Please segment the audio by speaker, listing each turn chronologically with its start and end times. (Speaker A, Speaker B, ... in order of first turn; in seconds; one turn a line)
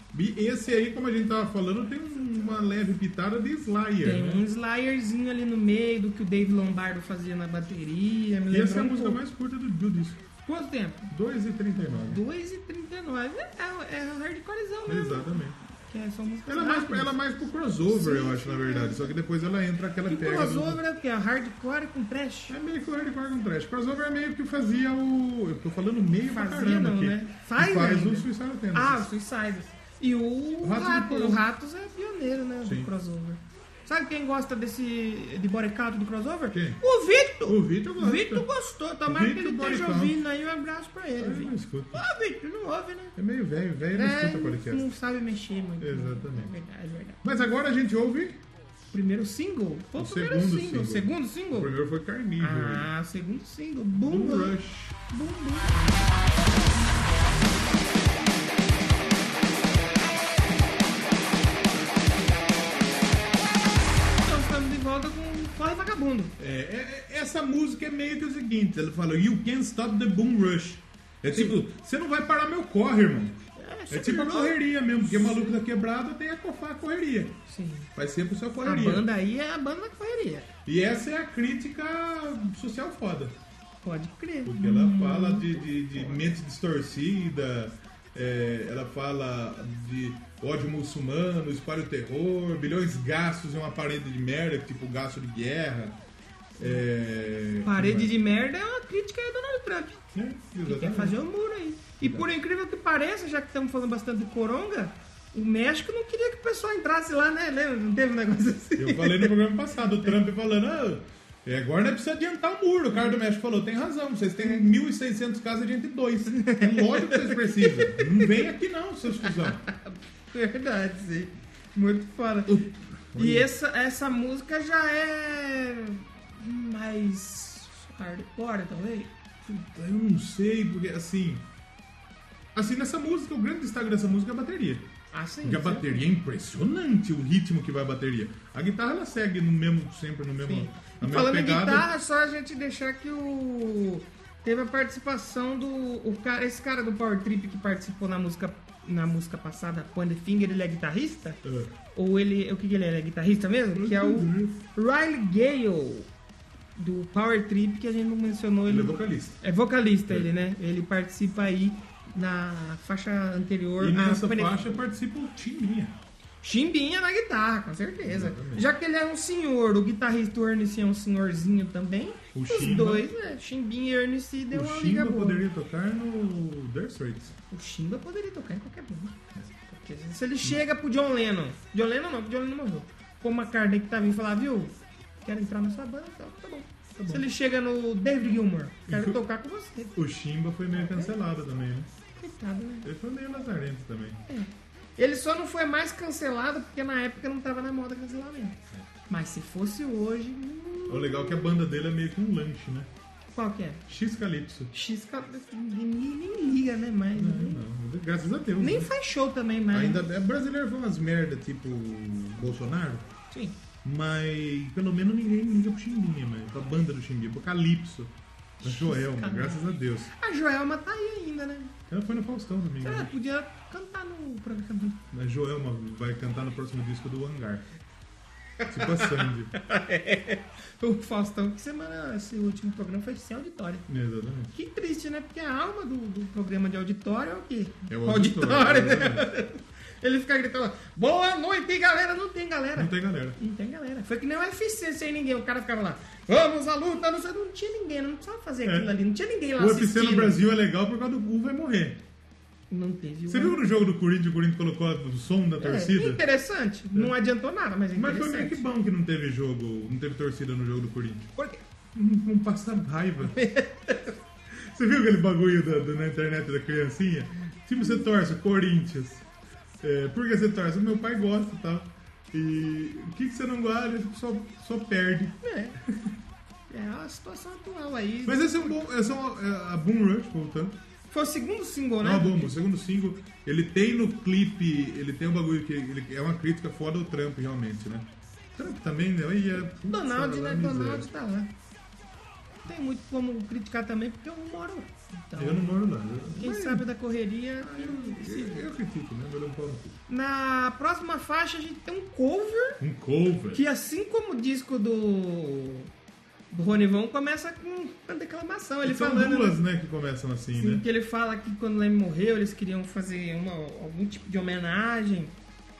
Speaker A: 0.1-4.4
Speaker B: 4.0-9.2
Speaker A: 8.5-10.2
Speaker B: 10.4-11.1
Speaker A: 11.1-12.2
Speaker B: 11.9-17.1
Speaker A: 14.8-15.6
Speaker A: 16.5-20.8
Speaker B: 17.9-19.1
Speaker B: 20.1-22.5
Speaker A: 22.5-29.1
Speaker B: 26.3-43.1
Speaker A: 30.6-31.4
Speaker A: 32.6-32.9
Speaker A: 36.5-36.8
Speaker A: 37.5-38.5
Speaker A: 39.1-40.2
Speaker A: 41.2-42.0
Speaker A: 43.1-44.9
Speaker B: 43.9-47.2
Speaker A: 45.8-46.5
Speaker A: 47.2-48.4
Speaker B: 48.9-51.7
Speaker A: 50.0-52.9
Speaker B: 52.4-55.7
Speaker A: 53.9-55.0
Speaker B: 64.2-66.3
Speaker A: 66.4-77.4
Speaker B: 71.3-71.6
Speaker B: 73.5-75.5
Speaker B: 77.5-77.9
Speaker A: 77.9-79.0
Speaker B: 78.6-80.5
Speaker A: 80.7-83.3
Speaker B: 83.8-86.2
Speaker A: 84.4-96.0
Speaker A: 96.6-98.1
Speaker B: 97.6-100.1
Speaker A: 100.1-101.2
Speaker B: 100.7-109.5
Speaker A: 102.0-102.3
Speaker A: 108.8-119.6
Speaker B: 116.3-118.3
Speaker B: 119.2-122.6
Speaker A: 122.5-123.5
Speaker B: 123.1-129.1
Speaker A: 129.4-131.4
Speaker A: 132.5-134.9
Speaker B: 135.1-136.1
Speaker A: 135.4-141.9
Speaker B: 140.4-151.4
Speaker A: 151.4-151.7
Speaker B: 151.9-156.1
Speaker A: 153.7-154.6
Speaker B: 156.8-164.8
Speaker A: 158.7-159.4
Speaker A: 163.8-165.9
Speaker B: 166.4-175.4
Speaker A: 168.0-168.7
Speaker A: 172.3-173.1
Speaker A: 174.5-177.3
Speaker B: 177.5-190.0
Speaker A: 186.9-187.2
Speaker A: 188.9-189.2
Speaker A: 189.9-191.9
Speaker B: 190.7-191.1
Speaker B: 192.2-192.9
Speaker A: 192.8-194.2
Speaker B: 194.3-201.6
Speaker A: 200.9-202.9
Speaker B: 203.3-203.8
Speaker A: 203.9-204.7
Speaker B: 204.7-207.6
Speaker A: 207.1-208.9
Speaker B: 208.6-210.0
Speaker A: 209.7-213.1
Speaker A: 213.8-220.1
Speaker B: 218.6-221.7
Speaker A: 221.9-223.1
Speaker B: 222.8-225.0
Speaker A: 225.1-227.6
Speaker B: 228.6-233.8
Speaker A: 228.7-229.5
Speaker A: 233.9-234.5
Speaker B: 234.5-250.4
Speaker A: 237.9-239.3
Speaker A: 242.8-243.4
Speaker A: 248.6-248.9
Speaker A: 249.6-252.0
Speaker B: 252.7-253.7
Speaker A: 253.3-256.2
Speaker B: 255.6-258.6
Speaker A: 257.9-261.3
Speaker B: 261.4-261.6
Speaker A: 261.9-263.4
Speaker B: 263.2-264.2
Speaker A: 264.5-269.2
Speaker A: 269.8-276.1
Speaker B: 275.4-275.8
Speaker B: 276.7-278.8
Speaker A: 278.2-280.8
Speaker B: 281.1-282.5
Speaker A: 282.0-291.1
Speaker B: 289.6-291.5
Speaker B: 292.6-295.8
Speaker A: 295.4-296.9
Speaker B: 296.3-298.7
Speaker A: 297.6-300.0
Speaker B: 300.1-302.8
Speaker A: 302.8-303.6
Speaker B: 303.5-305.9
Speaker B: 306.5-309.6
Speaker A: 308.8-310.8
Speaker B: 310.5-315.3